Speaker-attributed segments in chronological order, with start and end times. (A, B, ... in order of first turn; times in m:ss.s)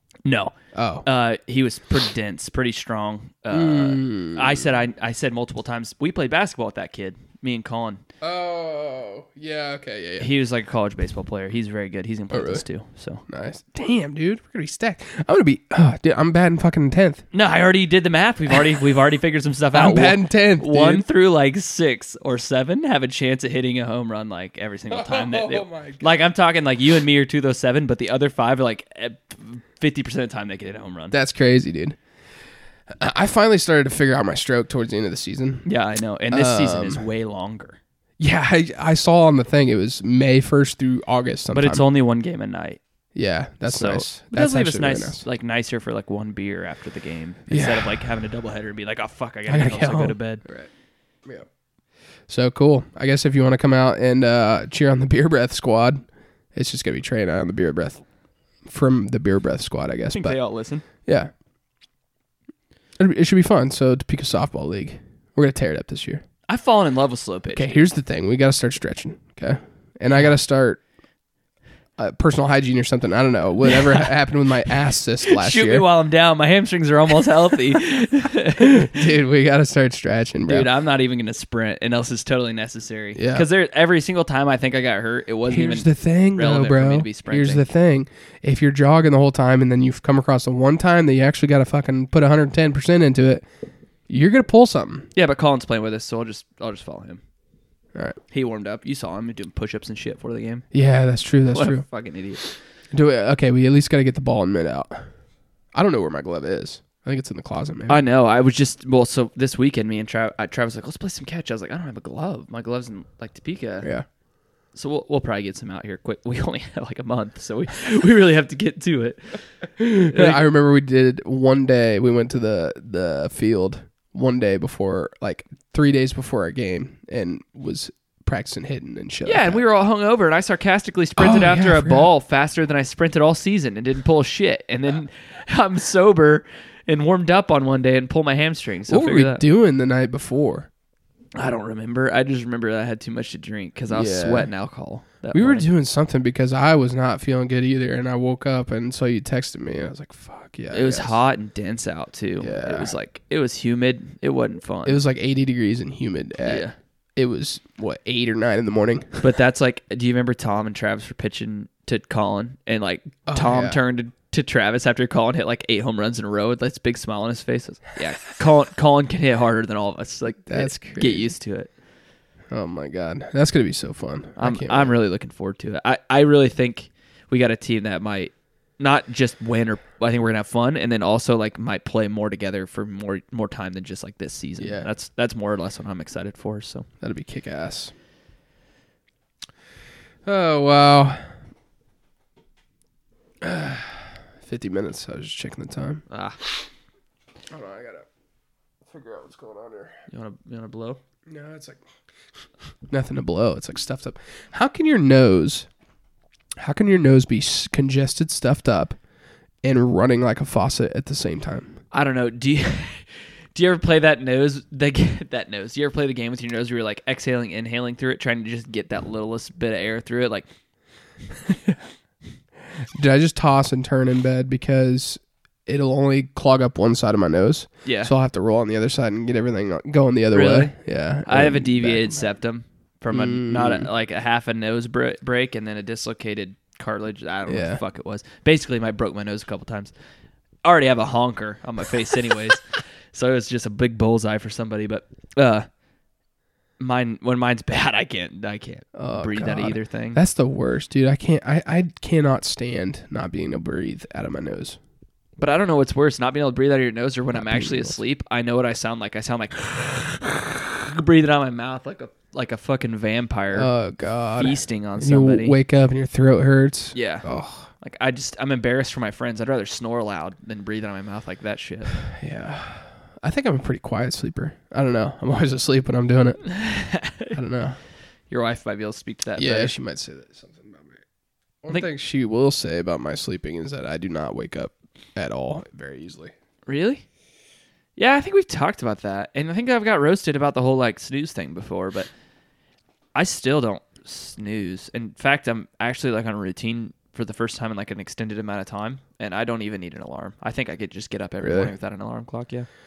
0:00.2-0:08.0 A
0:00.8-0:01.1 B
0:03.5-0:04.7 B
0:08.2-0:10.3 B
0:10.2-0:13.2 A
0:12.3-0:12.6 B
0:13.3-0:17.2 B
0:17.3-0:31.2 A
0:19.7-0:21.1 B
0:24.9-0:26.1 B
0:31.1-0:32.0 B
0:32.9-0:35.7 B
0:35.6-0:37.8 A
0:36.3-0:37.0 B
0:38.2-0:41.8 B
0:41.5-0:42.8 A
0:43.2-0:45.2 B
0:43.7-0:50.4 A
0:47.5-0:48.0 B
0:49.5-0:50.7 B
0:52.3-0:58.0 B
0:58.7-1:00.4 B
1:00.1-1:00.8 A
1:01.0-1:01.3 B
1:03.0-1:06.2 B
1:06.5-1:07.8 A
1:07.5-1:10.8 B
1:12.0-1:15.9 B
1:15.2-1:19.0 A
1:18.6-1:20.7 B
1:20.5-1:27.7 A
1:23.2-1:23.5 B
1:25.5-1:33.5 B
1:34.1-1:35.1 B
1:35.2-1:37.2 A
1:38.3-1:40.7 A
1:40.7-1:41.8 B
1:41.5-1:42.4 A
1:42.9-1:45.1 B
1:45.7-1:48.0 B
1:47.9-1:53.9 A
1:54.8-1:59.4 A
1:59.8-2:09.6 B
2:00.0-2:00.4 A
2:09.2-2:19.4 A
2:11.2-2:12.1 B
2:18.9-2:20.7 B
2:21.4-2:25.7 A
2:23.9-2:24.5 B
2:25.3-2:31.2 B
2:30.7-2:35.0 A
2:32.4-2:32.9 B
2:34.8-2:36.6 B
2:36.4-2:36.8 A
2:37.2-2:39.2 B
2:39.2-2:51.7 A
2:43.3-2:43.8 B
2:50.5-2:51.3 B
2:52.5-2:55.0 B
2:54.4-3:06.9 A
3:04.6-3:04.9 B
3:07.0-3:07.9 B
3:10.2-3:11.2 B
3:13.4-3:16.0 B
3:16.1-3:16.4 A
3:17.5-3:18.1 B
3:18.9-3:20.0 B
3:20.1-3:21.0 A
3:21.3-3:21.9 B
3:22.9-3:25.7 B
3:26.6-3:29.0 B
3:29.6-3:31.8 B
3:31.9-3:40.5 A
3:42.9-3:52.2 B
3:47.8-3:48.1 A
3:50.3-3:50.7 A
3:51.3-3:59.9 A
3:53.1-3:53.9 B
3:57.5-3:57.8 B
4:00.6-4:05.7 A
4:06.8-4:10.2 A
4:09.0-4:14.8 B
4:15.4-4:23.7 A
4:17.3-4:18.0 B
4:23.5-4:27.7 B
4:24.4-4:25.6 A
4:26.9-4:27.3 A
4:27.8-4:32.0 A
4:32.1-4:36.4 B
4:36.4-4:37.4 A
4:37.3-4:37.8 B
4:38.3-4:39.7 A
4:39.4-4:41.0 B
4:41.6-4:46.3 B
4:46.7-4:47.0 A
4:48.0-4:52.1 A
4:53.2-5:02.7 A
5:01.4-5:01.7 B